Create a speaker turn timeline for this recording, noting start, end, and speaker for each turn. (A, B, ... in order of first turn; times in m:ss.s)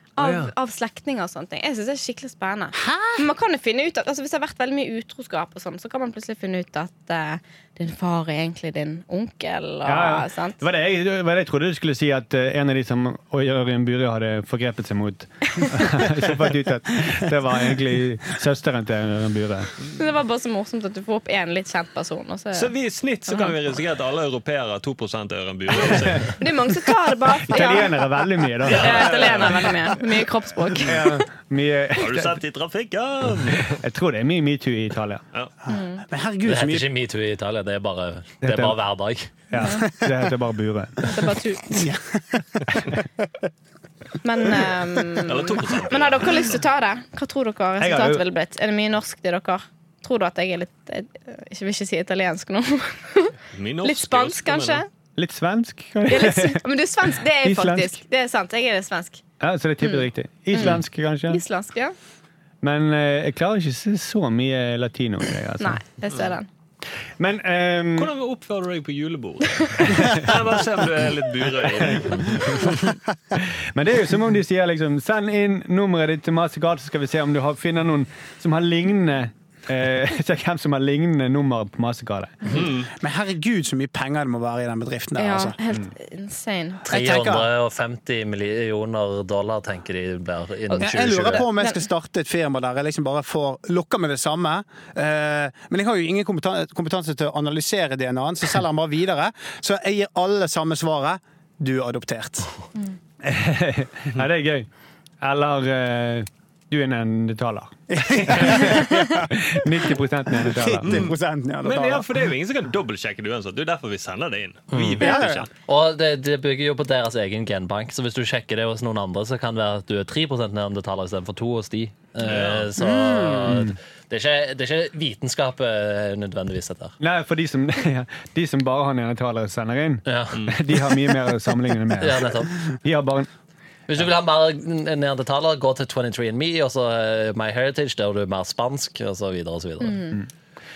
0:00.2-0:10.6 A
0:00.2-0:00.5 B
0:02.8-0:03.2 C
0:09.8-0:19.7 D
0:20.0-0:22.7 A
0:22.5-0:26.4 B
0:23.3-0:23.5 A
0:26.4-0:28.0 A
0:27.5-0:29.7 D
0:28.6-0:29.8 B
0:28.7-0:31.1 A
0:30.8-0:32.4 D
0:31.9-0:33.8 B
0:33.3-0:35.2 D
0:35.7-0:36.9 C
0:35.7-0:36.0 A
0:36.4-0:39.3 E
0:38.4-0:38.8 D
0:39.5-0:41.2 D
0:39.6-0:39.9 A
0:41.0-0:41.9 A
0:41.7-0:42.8 C
0:44.2-0:54.9 A
0:45.3-0:46.6 B
0:47.8-0:48.2 D
0:53.5-0:54.8 B
0:55.2-0:56.6 D
0:56.1-0:59.2 A
0:57.4-0:58.0 D
0:59.4-1:01.4 D
0:59.8-1:00.8 A
1:01.3-1:02.0 A
1:02.6-1:05.8 D
1:05.6-1:06.5 A
1:07.2-1:08.1 D
1:08.0-1:13.0 B
1:09.8-1:10.3 D
1:13.4-1:22.6 D
1:22.4-1:22.9 B
1:22.6-1:25.6 C
1:25.2-1:26.8 A
1:26.8-1:31.5 E
1:26.9-1:27.5 C
1:30.7-1:42.5 C
1:43.2-1:44.7 D
1:45.2-1:51.1 D
1:47.9-1:49.4 C
1:48.6-1:48.9 A
1:50.4-1:52.2 C
1:50.8-1:55.5 B
1:54.7-2:07.0 E
1:55.0-1:55.4 C
2:02.2-2:02.7 B
2:02.8-2:03.8 D
2:07.0-2:13.3 D
2:10.1-2:10.6 E
2:10.3-2:10.6 B
2:12.0-2:12.6 E
2:13.9-2:20.1 E
2:19.8-2:20.2 A